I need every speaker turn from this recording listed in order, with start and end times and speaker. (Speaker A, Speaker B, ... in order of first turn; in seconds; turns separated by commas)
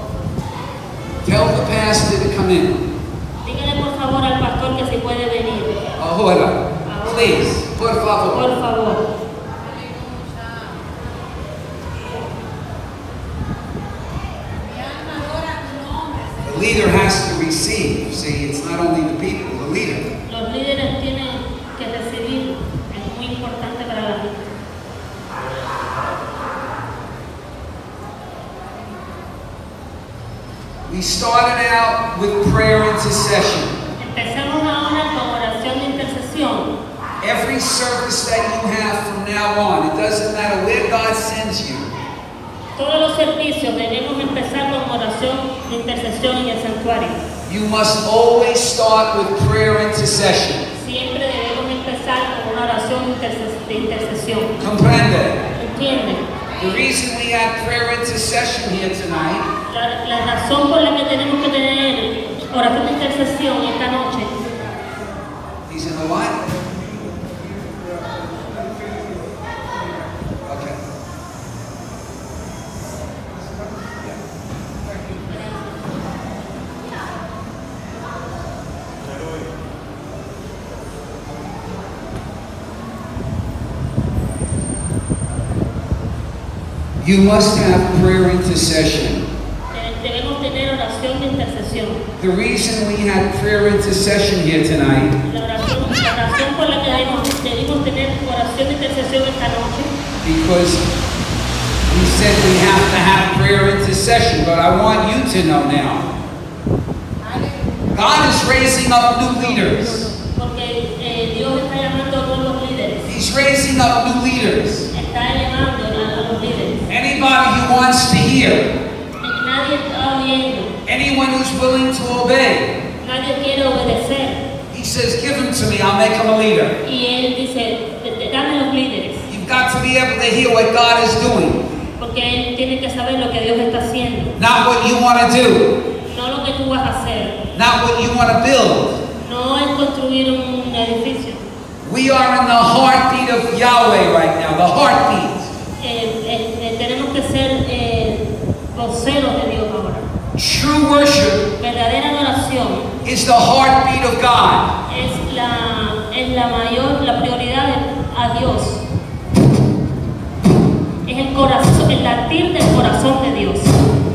Speaker A: 1.2-2.8, Speaker B: 3.4-5.8, Speaker A: 6.0-8.5, Speaker B: 6.8-7.5, Speaker B: 8.3-9.1, Speaker A: 16.4-20.1, Speaker B: 20.3-24.4, Speaker A: 30.9-33.7, Speaker B: 34.0-36.7, Speaker A: 37.2-41.9, Speaker B: 42.8-47.2, Speaker A: 47.5-50.6, Speaker B: 50.7-54.5, Speaker A: 54.6-55.4, Speaker B: 55.5-56.2, Speaker A: 56.6-59.5, Speaker B: 59.7-64.3, Speaker A: 65.7-66.4, Speaker A: 70.5-70.8, Speaker B: 75.3-75.9, Speaker A: 87.0-89.3, Speaker B: 89.7-92.0, Speaker A: 92.2-95.1, Speaker B: 95.2-99.9, Speaker A: 100.2-100.8, Speaker A: 101.9-106.1, Speaker A: 107.9-110.1, Speaker B: 110.3-113.1, Speaker A: 113.1-114.9, Speaker B: 114.9-116.8, Speaker A: 116.9-118.7, Speaker B: 119.2-120.7, Speaker A: 120.8-122.7, Speaker B: 123.0-124.4, Speaker A: 124.7-126.8, Speaker B: 126.8-129.2, Speaker A: 129.3-131.6, Speaker B: 132.0-134.3, Speaker A: 134.4-135.7, Speaker B: 136.0-137.4, Speaker A: 137.5-139.0, Speaker B: 139.2-141.4, Speaker A: 141.8-145.5, Speaker B: 145.8-150.1, Speaker A: 150.3-151.4, Speaker B: 151.6-152.9, Speaker A: 153.0-154.7, Speaker B: 154.9-158.8, Speaker B: 161.0-163.8